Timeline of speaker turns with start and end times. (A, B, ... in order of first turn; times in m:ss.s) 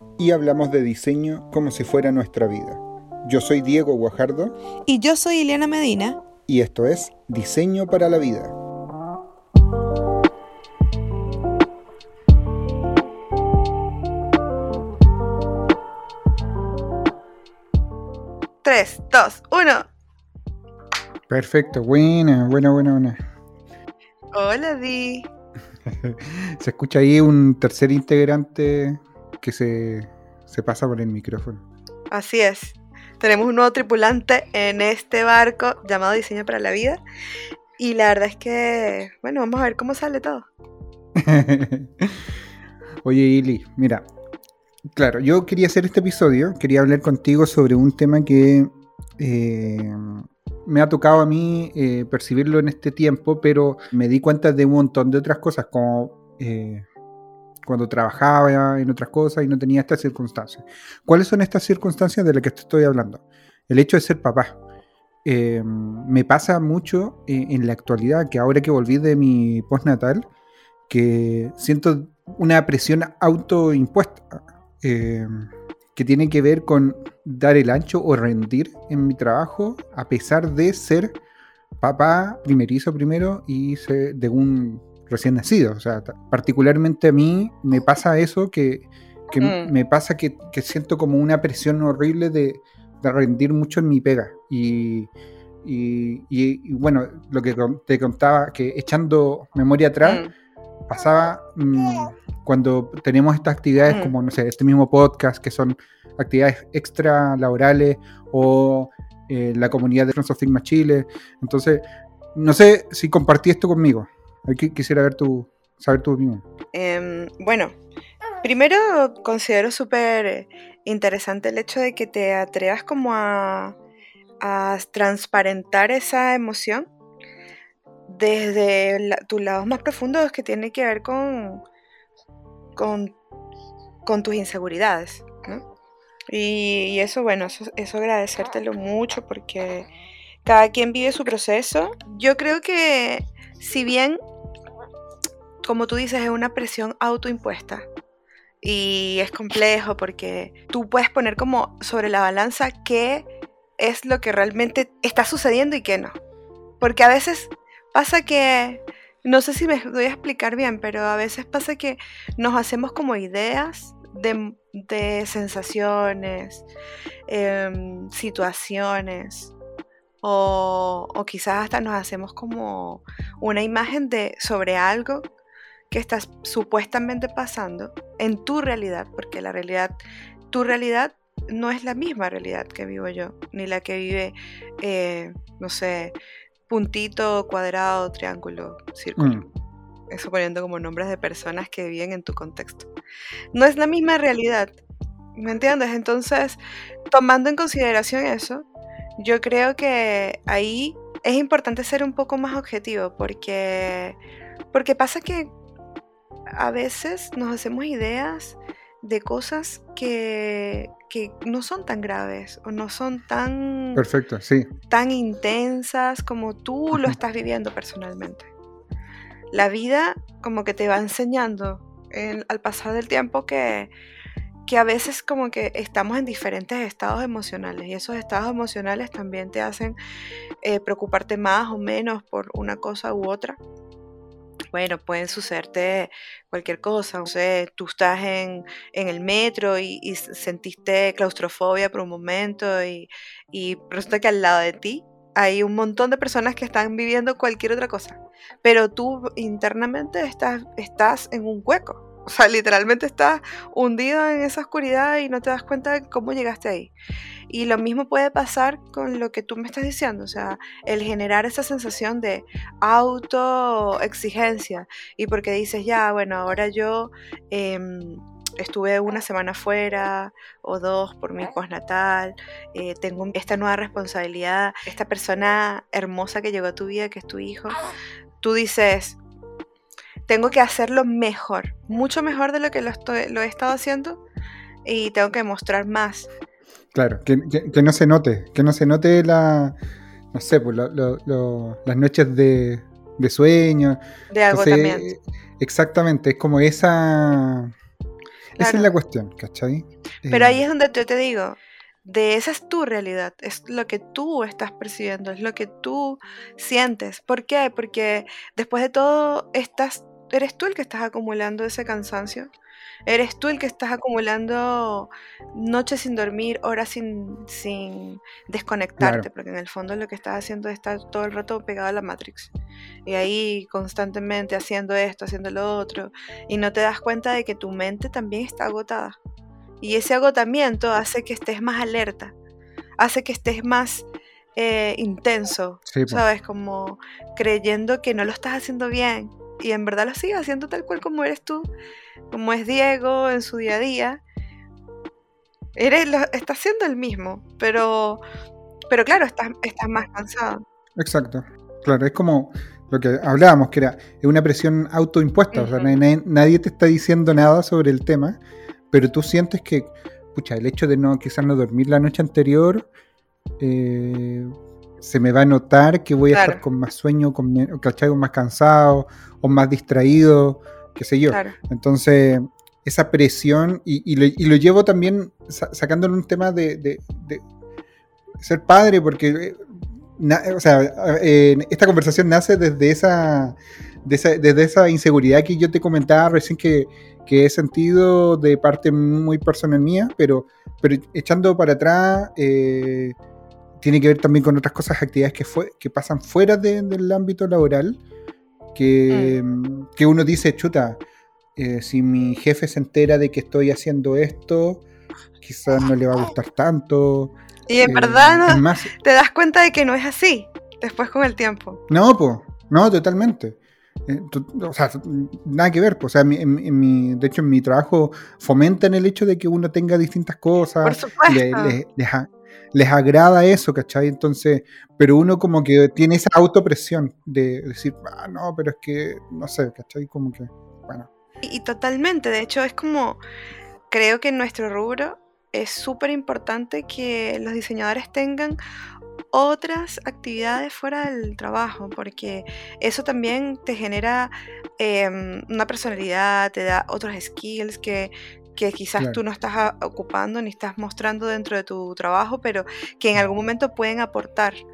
0:00.2-0:04.5 A
0:04.9-0:06.2 B
0:06.5-0:08.5 A
0:18.6-0:19.9 B
0:21.3-0:23.2 A
0:24.3-0:25.3 B
0:25.8-0:31.6 A
0:32.1-0:37.0 B
0:37.8-0:40.5 B
0:41.2-0:42.3 A
0:43.0-0:44.0 A
0:44.9-0:56.8 A
0:57.6-1:04.6 A
1:05.2-1:10.2 A
1:10.9-1:21.2 A
1:21.8-1:35.1 A
1:29.4-1:29.7 B
1:35.6-1:40.2 A
1:40.0-1:40.3 B
1:40.9-1:56.4 A
1:43.8-1:44.1 B
1:56.7-1:57.7 B
1:58.4-2:03.8 B
2:04.4-2:06.9 B
2:08.1-2:11.6 B
2:12.8-2:13.1 B
2:14.0-2:15.6 B
2:16.3-2:19.9 B
2:20.4-2:24.2 B
2:25.6-2:27.8 B
2:28.6-2:33.2 B
2:33.8-2:36.1 B
2:36.8-2:46.6 B
2:47.3-2:49.5 B
2:50.2-2:55.2 B
2:55.9-2:59.9 B
3:00.5-3:06.1 B
3:06.7-3:09.5 B
3:09.2-3:09.4 A
3:10.1-3:12.9 B
3:13.5-3:14.8 B
3:15.4-3:16.6 B
3:17.1-3:18.6 B
3:19.2-3:24.2 B
3:24.7-3:25.5 B
3:26.6-3:34.0 B
3:34.0-3:34.7 A
3:34.9-3:38.5 B
3:39.5-3:43.9 B
3:44.7-3:50.0 B
3:50.6-3:53.6 B
3:54.7-4:16.9 B
4:17.5-4:37.8 B
4:38.4-4:39.2 B
4:40.3-4:44.2 B
4:44.8-4:46.3 B
4:46.9-4:49.8 A
4:50.3-4:57.7 A
4:54.3-4:55.1 B
4:58.6-5:00.6 A
4:58.6-4:58.9 B
5:00.3-5:12.5 B
5:13.1-5:22.5 B
5:19.0-5:19.3 A
5:23.0-5:29.2 B
5:29.8-5:32.3 B
5:33.0-5:41.7 B
5:35.9-5:36.2 A
5:42.3-5:44.2 B
5:45.8-5:48.2 B
5:48.9-5:50.6 B
5:51.0-5:58.4 A
5:55.5-5:55.9 B
5:58.9-6:02.9 A
6:03.6-6:17.4 A
6:06.3-6:06.6 B
6:11.3-6:11.6 B
6:18.4-6:19.6 A
6:20.2-6:33.2 A
6:33.8-6:38.0 A
6:38.7-6:41.0 A
6:39.1-6:39.4 B
6:41.6-6:44.8 A
6:45.4-6:48.9 A
6:47.7-6:51.8 B
6:51.9-7:11.1 A
7:00.8-7:01.8 B
7:11.4-7:13.2 B
7:13.9-7:18.6 B
7:19.3-7:34.6 B